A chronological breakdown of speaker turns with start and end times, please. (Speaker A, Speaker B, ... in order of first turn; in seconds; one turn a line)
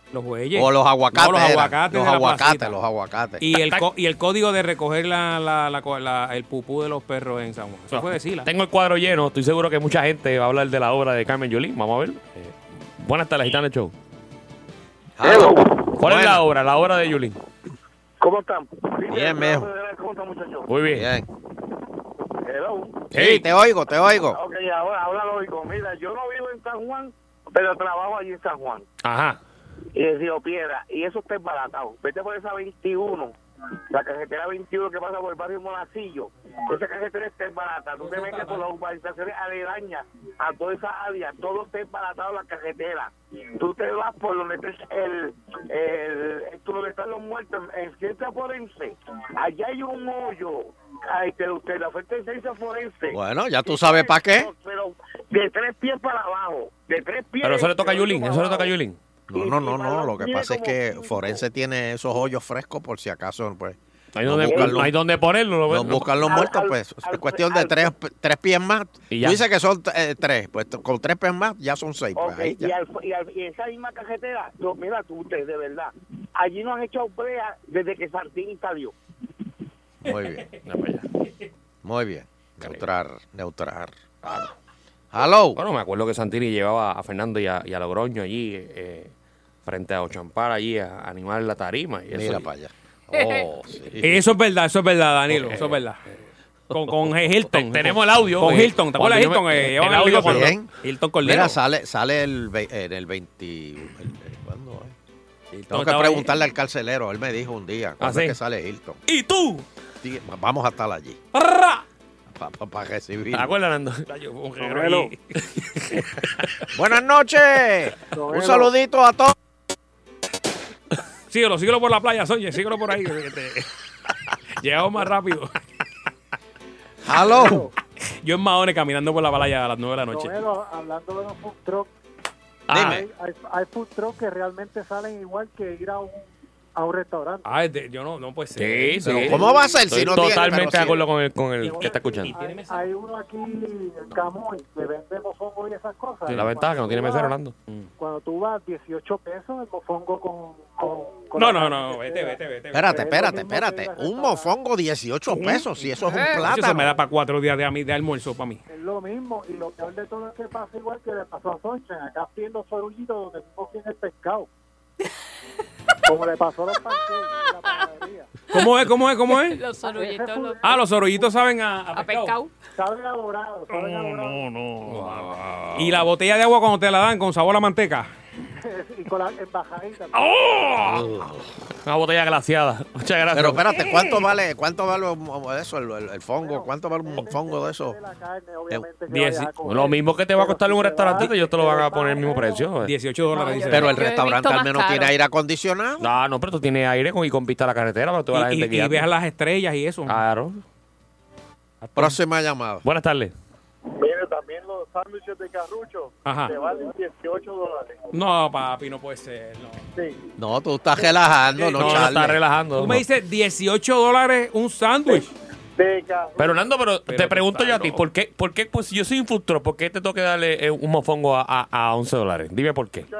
Speaker A: 0.1-2.8
Speaker B: 0.5-3.4
Speaker A: 3.4-8.5
Speaker C: 3.5-3.9
Speaker C: 7.9-13.9
Speaker B: 15.2-16.4
Speaker D: 15.2-15.9
Speaker C: 15.8-17.4
Speaker D: 18.2-20.7
Speaker B: 19.1-19.7
Speaker C: 20.7-21.1
Speaker B: 20.9-21.2
Speaker D: 22.4-23.1
Speaker B: 23.1-24.4
Speaker C: 23.1-23.4
Speaker D: 24.1-28.9
Speaker C: 29.0-29.4
Speaker D: 29.9-33.3
Speaker D: 33.9-58.7
Speaker A: 38.0-38.7
Speaker B: 53.1-54.5
Speaker C: 57.4-59.0
Speaker B: 59.3-64.9
Speaker D: 59.3-61.4
Speaker C: 64.1-66.2
Speaker D: 64.5-64.8
Speaker B: 65.7-72.7
Speaker D: 66.2-67.9
Speaker C: 69.1-69.4
Speaker D: 72.2-79.5
Speaker B: 80.0-80.5
Speaker A: 80.2-80.5
Speaker C: 80.6-81.1
Speaker B: 81.8-83.9
Speaker B: 85.1-85.6
Speaker C: 85.5-89.1
Speaker C: 89.6-92.5
Speaker B: 92.1-94.2
Speaker E: 93.1-93.4
Speaker A: 94.0-96.1
Speaker C: 95.3-95.8
Speaker A: 96.7-101.6
Speaker C: 97.5-100.5
Speaker B: 100.2-100.7
Speaker B: 101.2-104.9
Speaker A: 105.5-106.4
Speaker B: 105.7-109.0
Speaker C: 108.0-108.4
Speaker C: 109.1-109.6
Speaker B: 110.0-111.2
Speaker A: 111.3-111.8
Speaker B: 112.3-113.5
Speaker C: 113.3-114.0
Speaker A: 114.1-115.2
Speaker C: 115.3-116.0
Speaker B: 116.7-119.3
Speaker F: 118.1-118.7
Speaker A: 121.3-123.7
Speaker A: 124.6-125.5
Speaker B: 127.0-127.7
Speaker F: 127.2-127.7
Speaker A: 128.2-130.4
Speaker F: 130.1-131.9
Speaker C: 132.7-133.0
Speaker B: 132.7-133.1
Speaker F: 132.7-137.5
Speaker A: 137.4-139.4
Speaker C: 138.6-142.3
Speaker B: 139.1-141.1
Speaker F: 139.1-140.9
Speaker A: 141.6-142.8
Speaker F: 141.6-147.3
Speaker C: 146.3-147.5
Speaker F: 148.0-154.5
Speaker A: 151.3-153.1
Speaker B: 152.7-156.9
Speaker A: 156.4-158.6
Speaker F: 158.7-164.5
Speaker F: 166.1-168.3
Speaker A: 168.5-169.6
Speaker E: 169.3-170.8
Speaker F: 169.8-171.3
Speaker A: 170.6-172.3
Speaker E: 171.9-172.5
Speaker F: 172.8-174.5
Speaker A: 173.7-178.1
Speaker C: 174.8-176.0
Speaker F: 178.6-181.0
Speaker A: 180.1-181.1
Speaker B: 180.8-181.5
Speaker C: 181.8-184.0
Speaker B: 183.3-188.0
Speaker F: 186.4-192.7
Speaker A: 189.1-189.5
Speaker C: 189.6-192.9
Speaker A: 192.8-193.9
Speaker E: 193.3-195.1
Speaker F: 193.3-193.9
Speaker B: 193.7-196.1
Speaker C: 196.0-199.0
Speaker A: 198.3-200.2
Speaker C: 200.1-200.6
Speaker A: 201.8-202.2
Speaker B: 201.9-202.8
Speaker C: 202.8-203.3
Speaker A: 206.2-206.5
Speaker A: 208.1-209.8
Speaker B: 210.4-212.4
Speaker C: 211.7-213.0
Speaker A: 211.8-212.2
Speaker A: 212.8-215.3
Speaker C: 216.3-223.1
Speaker A: 217.1-218.0